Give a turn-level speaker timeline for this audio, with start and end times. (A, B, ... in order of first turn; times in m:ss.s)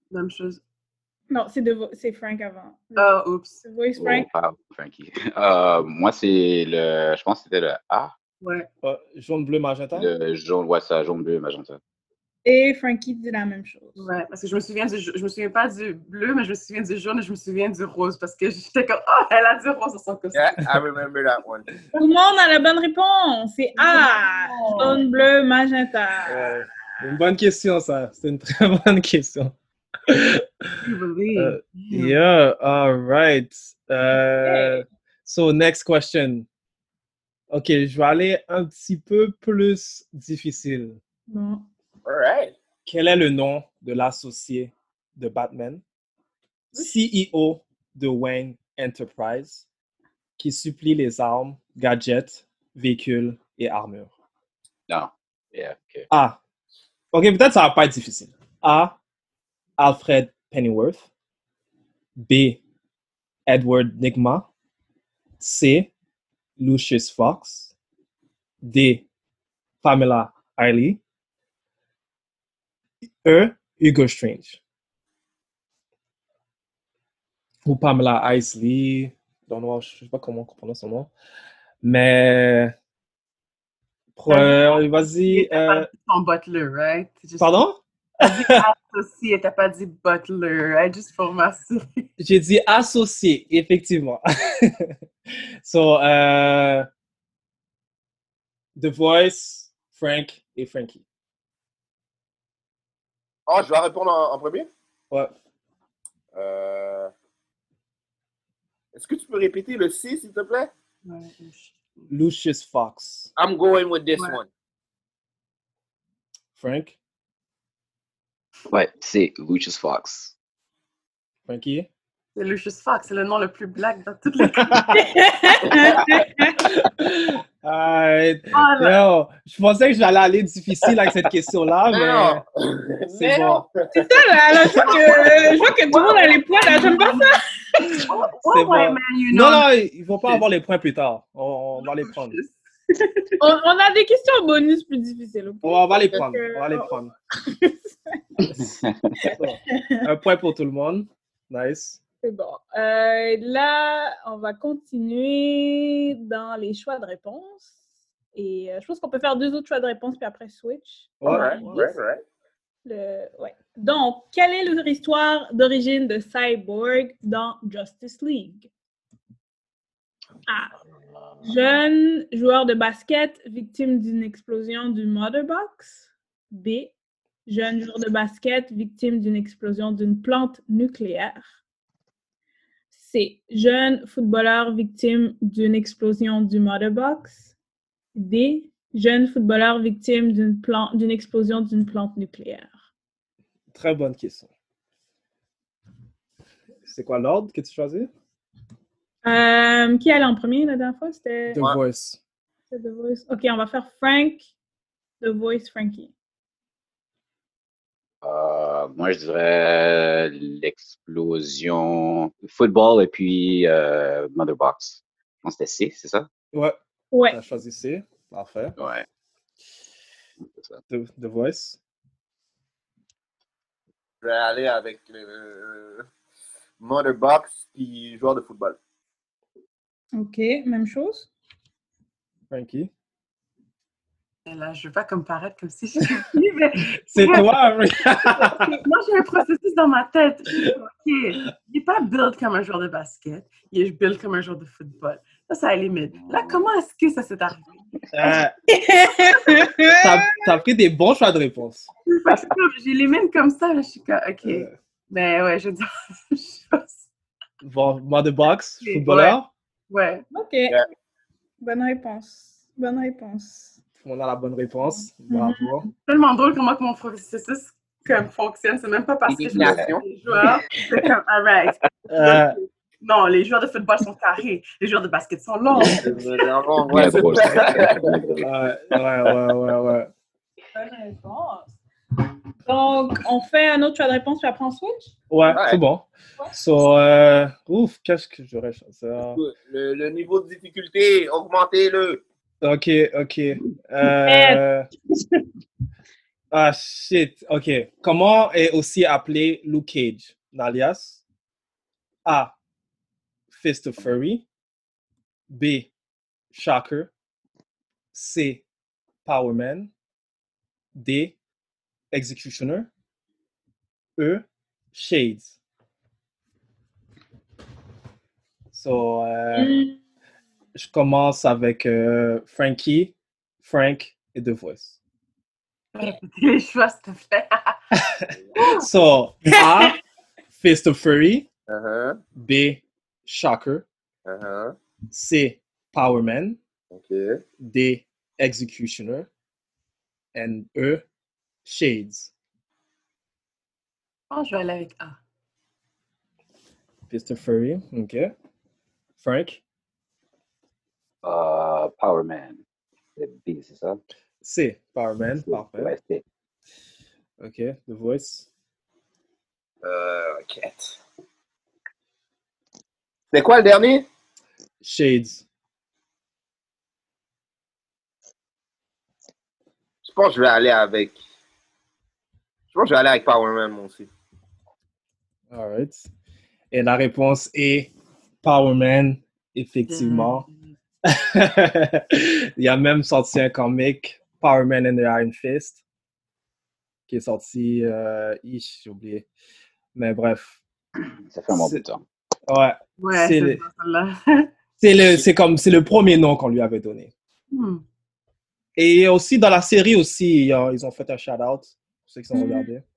0:00.1-0:00.6 A
0:01.3-0:04.3 B
0:03.0-0:03.6 A
0:04.0-0:08.1 C
0:08.4-0:08.7 A
0:08.8-0:10.1 D
0:10.0-0:11.8 C
0:12.4-0:14.1 B
0:14.0-0:20.6 A
0:20.3-0:21.7 E
0:22.0-0:26.6 B
0:23.9-0:25.0 A
0:26.3-0:29.6 D
0:30.1-0:30.7 D
0:30.8-0:32.2 A
0:31.4-0:36.5 D
0:34.4-0:34.8 B
0:37.5-0:41.0 D
0:41.3-0:41.6 B
0:42.0-0:42.6 E
0:42.9-0:45.8 D
0:46.7-0:49.7 D
0:50.4-0:54.1 D
0:54.9-0:56.1 C
0:56.1-0:56.4 D
0:57.1-0:58.9 D
0:59.8-1:01.1 D
1:02.2-1:02.6 D
1:03.5-1:04.5 D
1:05.4-1:05.9 D
1:06.6-1:07.7 D
1:08.6-1:09.0 D
1:09.8-1:11.0 D
1:13.2-1:14.6 D
1:17.6-1:21.1 D
1:21.8-1:22.7 D
1:24.2-1:25.9 D
1:24.3-1:27.6 A
1:27.4-1:28.6 D
1:28.2-1:32.1 A
1:32.2-1:35.0 D
1:35.6-1:36.9 D
1:38.8-1:41.0 D
1:43.5-1:44.7 E
1:46.3-1:47.1 E
1:48.9-1:50.7 E
1:51.1-1:51.8 A
1:52.1-1:53.3 D
1:53.4-1:54.5 E
1:56.6-1:57.0 D
1:58.7-2:00.3 C
2:01.5-2:01.9 D
2:02.4-2:04.8 A
2:04.6-2:05.0 D
2:04.9-2:06.6 B
2:06.6-2:12.4 D
2:08.5-2:09.0 A
2:11.9-2:13.7 E
2:13.1-2:13.6 D
2:13.9-2:17.4 B
2:14.7-2:17.4 A
2:17.9-2:22.4 D
2:18.0-2:19.7 A
2:21.8-2:23.4 A
2:23.4-2:28.2 B
2:25.6-2:27.1 D
2:28.5-2:29.2 C
2:29.2-2:30.0 B
2:29.3-2:32.0 D
2:32.2-2:37.8 B
2:38.3-2:41.8 B
2:41.2-2:41.9 D
2:41.2-2:42.2 E
2:42.8-2:48.7 B
2:50.5-2:50.7 B
2:51.4-2:56.9 B
2:57.5-3:01.5 B
3:02.9-3:07.5 B
3:08.2-3:12.8 B
3:13.7-3:14.5 D
3:16.9-3:18.1 D
3:19.2-3:21.6 B
3:21.5-3:22.2 D
3:22.7-3:24.4 B
3:25.2-3:26.1 B
3:28.2-3:36.3 C
3:37.1-3:37.4 B
3:37.3-3:38.8 D
3:38.8-3:39.0 C
3:40.9-3:41.8 D
3:44.2-3:46.0 E
3:46.8-3:48.8 E
3:50.2-3:51.3 B
3:52.5-3:52.9 D
3:54.5-3:57.7 A
3:56.9-3:58.7 D
3:58.8-4:07.6 A
4:06.2-4:06.6 C
4:08.1-4:08.5 D
4:08.7-4:10.4 B
4:10.0-4:11.9 D
4:12.1-4:17.0 A
4:14.4-4:14.7 D
4:17.6-4:19.5 D
4:18.8-4:19.4 A
4:19.9-4:20.2 A
4:20.3-4:20.8 B
4:21.6-4:23.8 B
4:24.0-4:25.9 D
4:25.3-4:25.9 B
4:26.0-4:36.1 A
4:29.3-4:30.0 E
4:29.5-4:29.9 C
4:32.1-4:32.6 D
4:35.9-4:38.2 E
4:36.9-4:38.5 C
4:38.4-4:40.1 D
4:40.7-4:41.8 B
4:42.7-4:45.1 B
4:45.3-4:49.4 D
4:45.5-4:45.8 E
4:49.2-4:52.2 E
4:52.6-4:54.9 D
4:54.2-4:54.6 B
4:56.5-5:01.2 D
5:02.2-5:02.5 D
5:03.5-5:04.4 D
5:05.5-5:05.9 D
5:06.5-5:07.1 D
5:08.1-5:08.6 D
5:09.2-5:09.9 D
5:11.0-5:11.4 D
5:12.1-5:12.9 D
5:14.2-5:15.6 D
5:18.7-5:19.8 D
5:19.6-5:20.0 B
5:20.8-5:25.0 D
5:26.0-5:27.8 A
5:27.9-5:30.0 D
5:28.6-5:28.9 A
5:30.5-5:31.5 D
5:31.7-5:32.2 E
5:32.4-5:33.9 D
5:34.2-5:34.7 E
5:35.1-5:36.6 D
5:36.9-5:37.4 E
5:37.6-5:39.3 D
5:40.4-5:41.0 D
5:41.6-5:42.3 D
5:44.3-5:45.2 A
5:47.1-5:48.3 D
5:49.2-5:49.6 D
5:51.2-5:52.6 C
5:53.2-5:54.0 C
5:54.4-5:56.0 D
5:55.5-5:56.2 C
5:57.4-5:58.5 D
5:59.8-6:01.0 E
6:03.3-6:04.0 E
6:04.8-6:05.4 D
6:10.0-6:11.2 E
6:12.7-6:14.1 E
6:15.5-6:16.1 D
6:16.7-6:17.9 D
6:18.4-6:20.5 D
6:19.9-6:20.7 A
6:21.0-6:25.8 D
6:27.1-6:29.2 D
6:30.0-6:30.6 D
6:31.0-6:32.0 C
6:31.5-6:31.8 D
6:32.5-6:33.6 D
6:33.0-6:34.5 A
6:34.8-6:37.1 D
6:37.5-6:37.8 A
6:38.8-6:42.8 D
6:42.4-6:42.7 B